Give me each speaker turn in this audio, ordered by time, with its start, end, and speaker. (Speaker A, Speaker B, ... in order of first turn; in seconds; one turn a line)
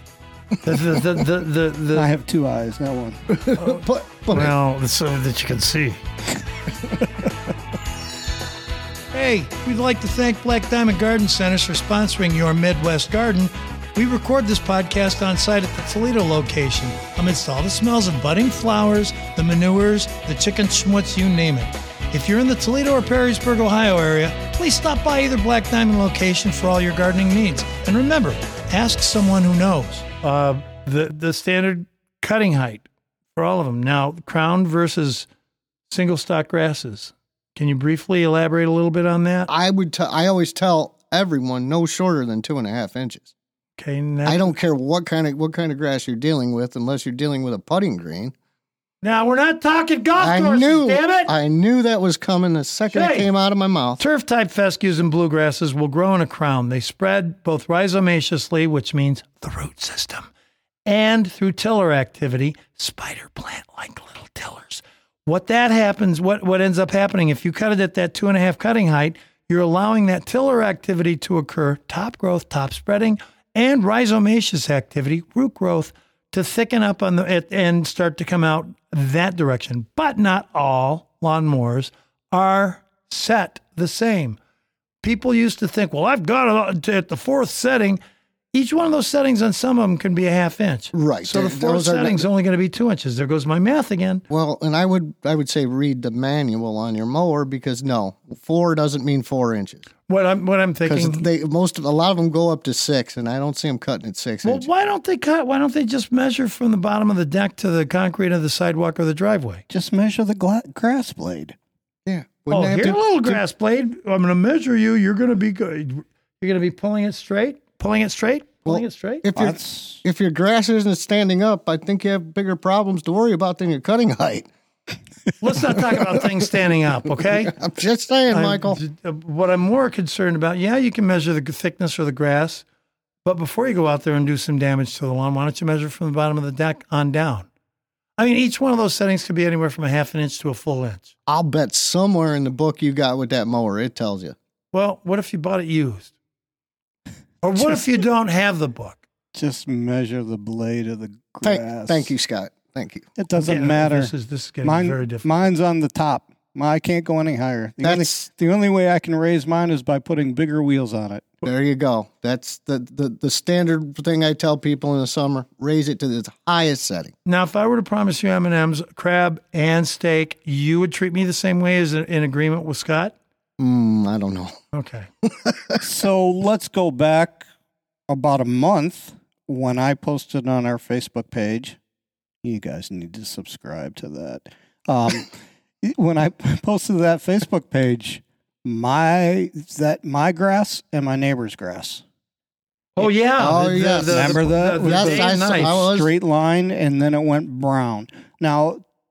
Speaker A: 0.6-2.1
Speaker B: 1.9-3.3
Speaker C: 3.3-4.5
Speaker A: 3.6-6.0
Speaker A: 9.1-35.3
Speaker A: 35.9-39.5
Speaker C: 39.5-43.3
Speaker A: 43.8-44.5
Speaker C: 44.2-48.3
Speaker A: 49.0-51.3
Speaker C: 50.2-54.0
Speaker A: 52.9-53.3
Speaker A: 54.0-60.3
Speaker A: 60.9-84.4
Speaker A: 85.0-88.0
Speaker A: 88.5-94.2
Speaker C: 90.9-92.3
Speaker C: 94.3-99.8
Speaker A: 100.1-101.2
Speaker C: 100.8-104.7
Speaker A: 104.4-109.6
Speaker B: 109.7-111.5
Speaker C: 112.1-113.4
Speaker A: 112.5-119.2
Speaker C: 118.7-124.5
Speaker B: 119.3-120.0
Speaker A: 125.4-127.5
Speaker C: 127.4-128.8
Speaker A: 128.3-132.6
Speaker A: 133.2-137.5
Speaker A: 138.2-141.1
Speaker C: 141.3-144.3
Speaker A: 144.7-146.1
Speaker A: 147.4-149.0
Speaker B: 149.3-152.1
Speaker C: 151.4-153.1
Speaker B: 153.2-154.1
Speaker A: 153.3-155.5
Speaker B: 154.6-161.3
Speaker C: 157.8-158.2
Speaker C: 161.4-167.1
Speaker A: 167.2-173.2
Speaker C: 173.6-174.6
Speaker A: 174.7-175.1
Speaker C: 175.2-175.8
Speaker B: 175.8-177.4
Speaker B: 178.1-181.8
Speaker B: 182.4-192.0
Speaker A: 193.0-195.8
Speaker C: 193.4-196.1
Speaker B: 194.1-198.8